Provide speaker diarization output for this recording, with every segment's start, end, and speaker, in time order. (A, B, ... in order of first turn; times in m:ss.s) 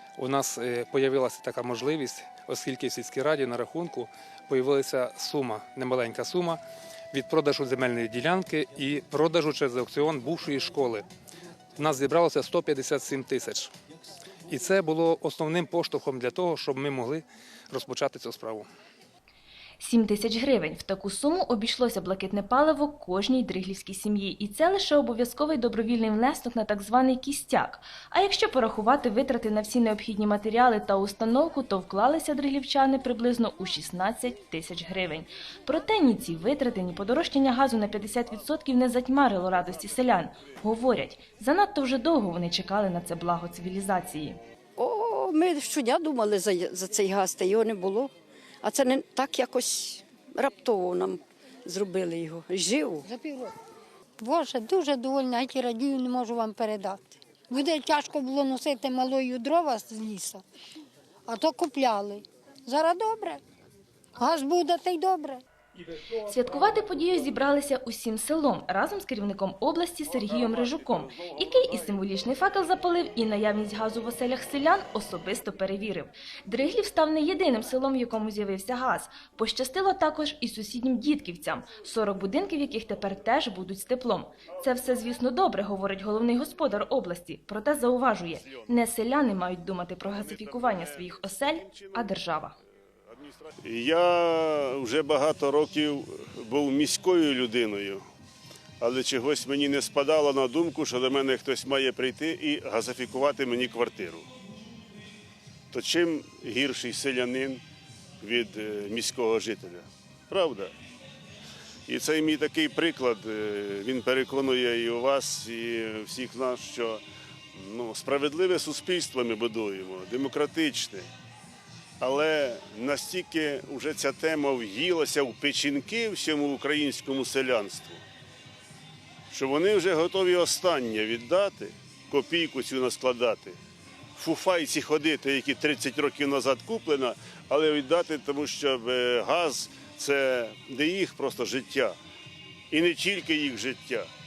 0:00.2-0:06.6 A
0:07.1-0:11.1 A
0:11.8-0:13.7 A
0:14.5-0:18.7 A
0:19.8-0:44.4 B
0:44.8-0:53.0 C
0:53.0-0:53.5 D
0:54.2-1:00.4 D
1:01.3-1:03.4 D
1:04.2-1:05.4 D
1:06.2-1:32.6 B
1:10.5-1:11.0 E
1:28.4-1:28.7 E
1:30.0-1:32.2 E
1:33.1-1:38.0 E
1:38.8-1:44.3 E
1:45.7-1:47.6 E
1:48.2-1:50.7 E
1:51.9-1:57.0 E
1:57.5-2:01.1 E
2:02.0-2:08.0 E
2:09.3-2:13.6 E
2:14.2-2:22.0 E
2:22.7-2:24.1 E